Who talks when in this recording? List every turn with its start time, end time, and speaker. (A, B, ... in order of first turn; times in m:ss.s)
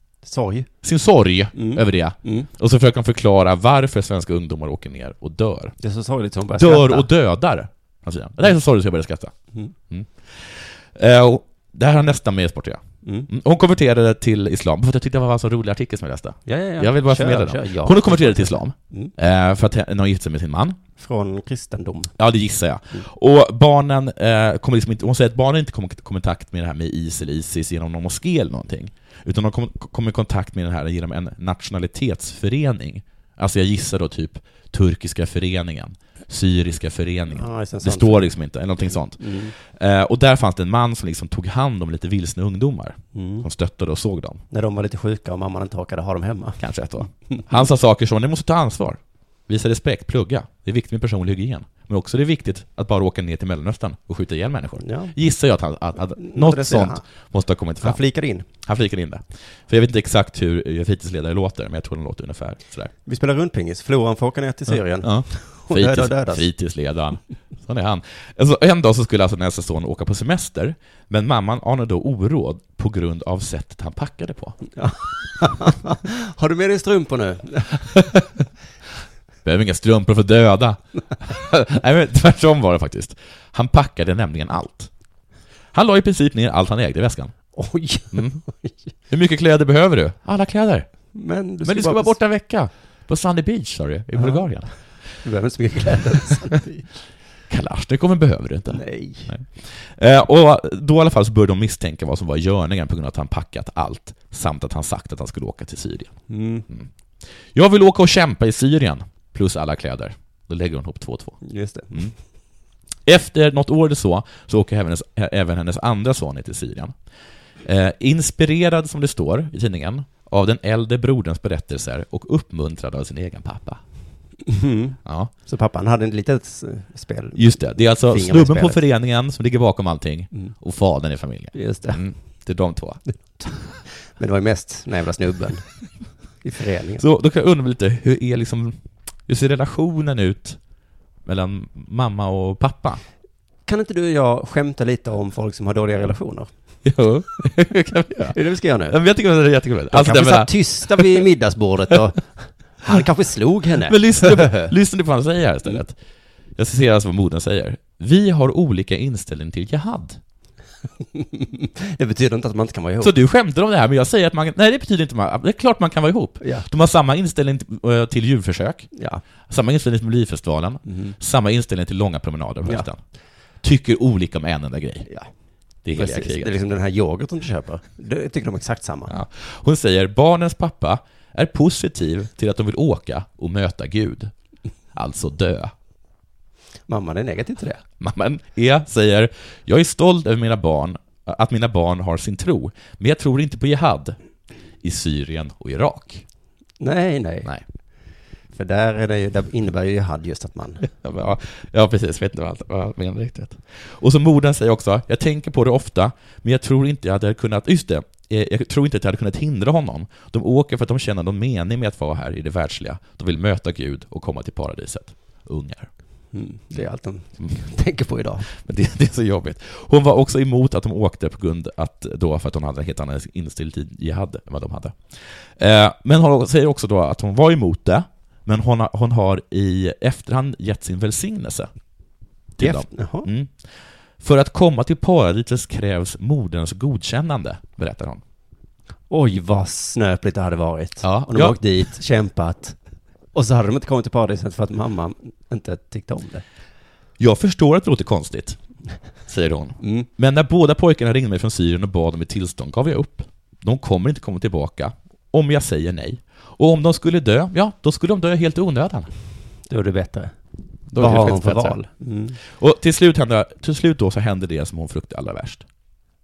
0:00.2-0:00.7 A
0:00.8-0:05.8 B
0:01.5-0:02.5 A
0:05.8-0:07.1 A
0:06.5-0:20.8 B
0:13.0-0:13.3 A
0:16.5-0:19.1 A
0:21.0-0:22.1 A
0:22.2-0:44.4 B
0:37.3-0:38.3 A
0:39.0-0:39.5 A
0:43.1-0:43.5 A
0:44.5-0:47.5 A
0:46.6-1:02.9 B
0:54.8-0:55.1 A
0:56.2-0:57.0 A
0:57.8-0:58.5 A
1:03.1-1:06.5 A
1:04.7-1:14.6 B
1:14.8-1:17.8 A
1:19.4-1:24.9 B
1:25.7-1:27.6 B
1:27.5-1:28.8 A
1:28.1-1:28.4 B
1:29.1-1:31.1 B
1:31.1-1:32.2 A
1:31.6-1:34.7 B
1:34.2-1:36.9 A
1:37.5-1:46.9 B
1:38.7-1:39.4 A
1:46.3-1:46.7 A
1:47.5-1:51.4 B
1:51.4-1:52.2 A
1:53.0-1:57.0 B
1:57.6-2:03.8 B
2:04.5-2:08.8 A
2:05.0-2:05.3 B
2:07.4-2:13.0 B
2:11.5-2:12.0 A
2:13.3-2:15.8 A
2:16.4-2:17.0 A
2:17.0-2:20.6 B
2:21.2-2:23.0 B
2:23.7-2:26.5 A
2:26.8-2:28.4 B
2:28.3-2:29.0 A
2:28.9-2:31.2 B
2:29.9-2:34.7 A
2:33.8-2:36.0 B
2:36.6-2:40.2 B
2:41.1-2:43.2 A
2:43.0-2:48.9 B
2:46.4-2:46.7 A
2:48.9-2:49.2 A
2:49.5-2:53.0 B
2:50.9-2:51.2 A
2:53.6-2:55.1 B
2:55.8-2:56.5 B
2:56.0-2:59.1 A
2:59.1-3:04.3 B
3:04.9-3:05.7 B
3:06.9-3:07.8 A
3:08.0-3:14.2 B
3:14.8-3:16.2 B
3:16.8-3:17.5 A
3:18.5-3:20.8 A
3:20.8-3:35.9 B
3:36.3-3:38.5 A
3:38.5-3:51.7 B
3:52.6-3:58.2 B
3:52.6-3:53.3 A
3:59.1-4:02.8 A
4:01.0-4:01.6 B
4:03.3-4:06.4 A
4:07.2-4:08.6 B
4:09.3-4:19.1 B
4:09.8-4:10.1 A
4:19.7-4:20.3 A
4:20.9-4:21.8 B
4:21.0-4:22.4 A
4:22.5-4:25.6 B